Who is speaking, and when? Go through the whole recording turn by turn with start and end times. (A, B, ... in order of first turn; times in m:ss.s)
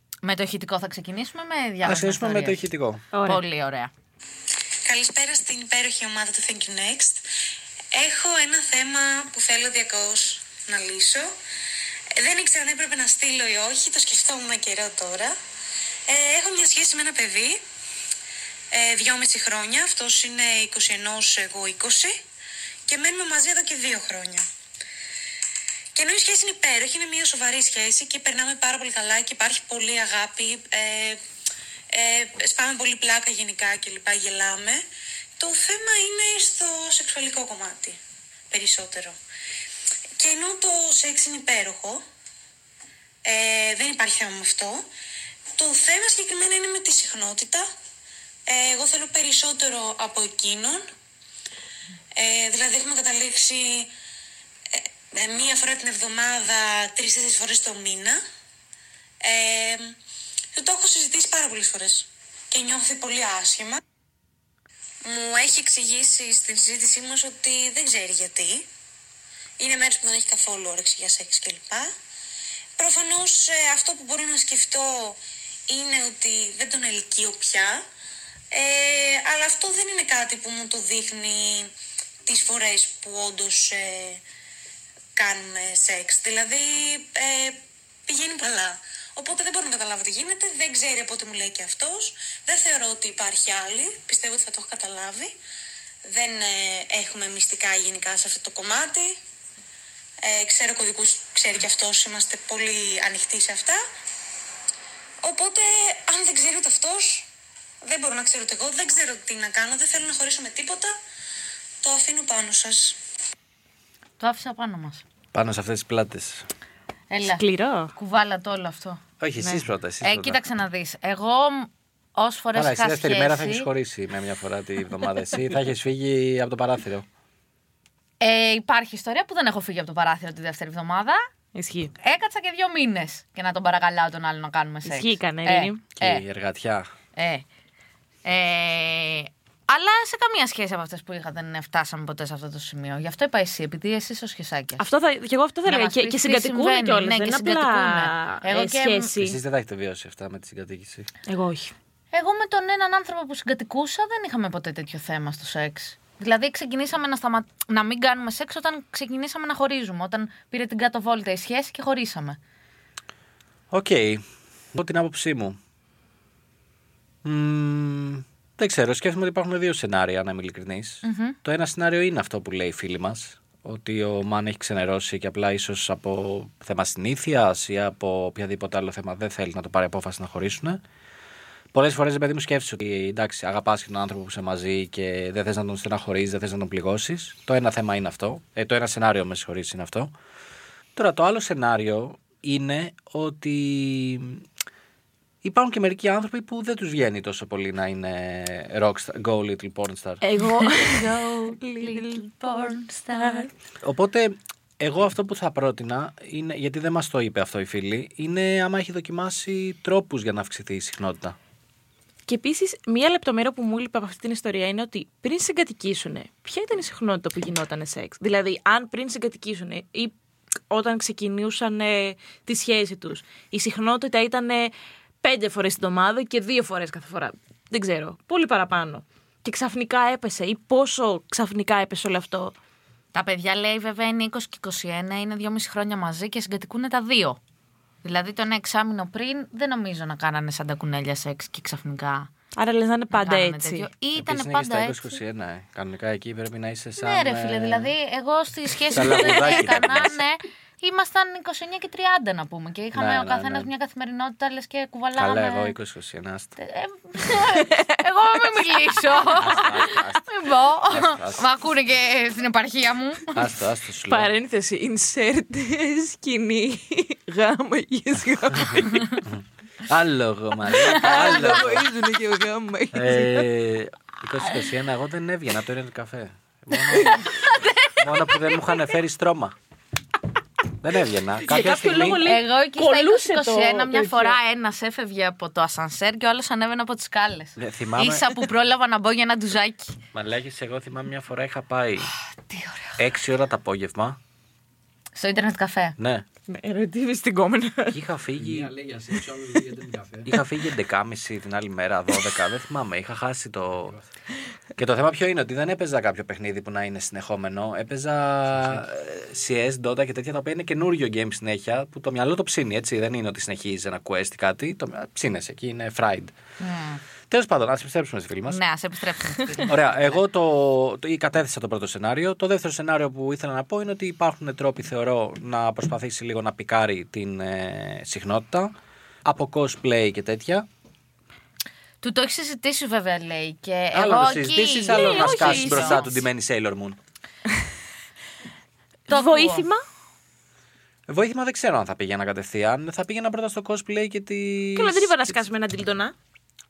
0:00.2-0:02.6 A
0:01.8-0:03.0 B
0:03.1-0:03.4 C
0:03.2-0:03.9 A
0:04.8-0:07.3 D
0:07.9-0:11.4 D
0:12.2-0:15.4 D
0:16.1-0:17.6 D
0:18.7-0:22.2 D
0:22.9-0:24.5 D
0:25.9-0:31.2 D
0:31.9-0:34.9 D
0:35.4-0:39.2 D
0:40.2-0:42.0 D
0:43.2-0:44.9 D
0:45.6-0:47.7 D
0:48.5-0:50.9 D
0:52.2-0:53.9 D
0:54.7-0:58.2 D
0:59.2-1:00.0 D
1:00.6-1:03.8 D
1:05.0-1:08.7 D
1:09.6-1:11.9 D
1:12.8-1:17.9 D
1:18.5-1:21.7 D
1:22.2-1:24.2 D
1:25.2-1:35.3 D
1:36.1-1:39.2 D
1:40.2-1:43.8 D
1:45.2-1:47.3 D
1:47.8-1:51.0 D
1:51.8-1:53.0 D
1:54.2-1:55.0 A
1:55.3-1:56.5 B
1:57.1-1:57.4 A
1:57.3-1:57.9 C
1:58.0-1:59.0 A
1:59.2-2:00.4 B
2:00.0-2:03.7 A
2:02.5-2:07.1 B
2:08.2-2:11.3 A
2:11.5-2:11.9 C
2:12.0-2:16.2 A
2:14.9-2:15.8 C
2:16.0-2:16.9 B
2:17.2-2:17.5 A
2:18.2-2:24.8 A
2:24.8-2:29.4 C
2:25.7-2:29.1 A
2:29.2-2:31.1 B
2:31.3-2:31.7 C
2:32.1-2:42.4 A
2:43.7-2:45.6 B
2:47.2-3:00.8 B
2:51.0-2:51.4 A
3:01.7-3:10.1 B
3:11.0-3:14.4 B
3:15.4-3:20.2 B
3:20.2-3:23.5 C
3:20.6-3:23.5 A
3:23.8-3:31.4 B
3:32.3-3:40.1 C
3:40.7-3:52.6 C
3:53.1-3:57.4 A
3:58.0-4:02.3 A
4:02.6-4:03.9 C
4:03.1-4:05.2 A
4:04.2-4:07.9 B
4:07.0-4:15.7 A
4:08.9-4:10.2 B
4:12.9-4:13.7 B
4:15.2-4:16.6 B
4:16.6-4:23.4 A
4:17.6-4:17.8 C
4:19.2-4:21.4 B
4:23.3-4:24.3 B
4:24.1-4:29.2 C
4:29.3-4:31.9 B
4:30.7-4:31.6 A
4:30.8-4:33.5 C
4:32.9-4:37.3 B
4:36.9-4:38.6 A
4:38.0-4:39.6 B
4:40.8-4:42.3 B
4:41.4-4:44.4 C
4:42.2-4:49.9 A
4:47.6-4:48.3 B
4:50.1-4:52.1 B
4:52.5-4:53.0 A
4:53.0-4:54.2 B
4:55.2-4:56.0 A
4:56.0-4:56.2 B
4:56.5-4:58.0 C
4:57.9-4:58.7 B
4:58.4-5:00.4 E
5:00.2-5:04.0 B
5:04.8-5:16.3 B
5:16.6-5:17.0 A
5:17.3-5:18.6 B
5:18.5-5:20.2 A
5:19.7-5:28.7 B
5:29.2-5:30.7 B
5:32.0-5:36.2 A
5:33.9-5:37.0 B
5:34.9-5:36.1 C
5:39.1-5:39.7 A
5:39.1-5:39.8 C
5:41.1-5:45.1 B
5:44.8-5:46.1 C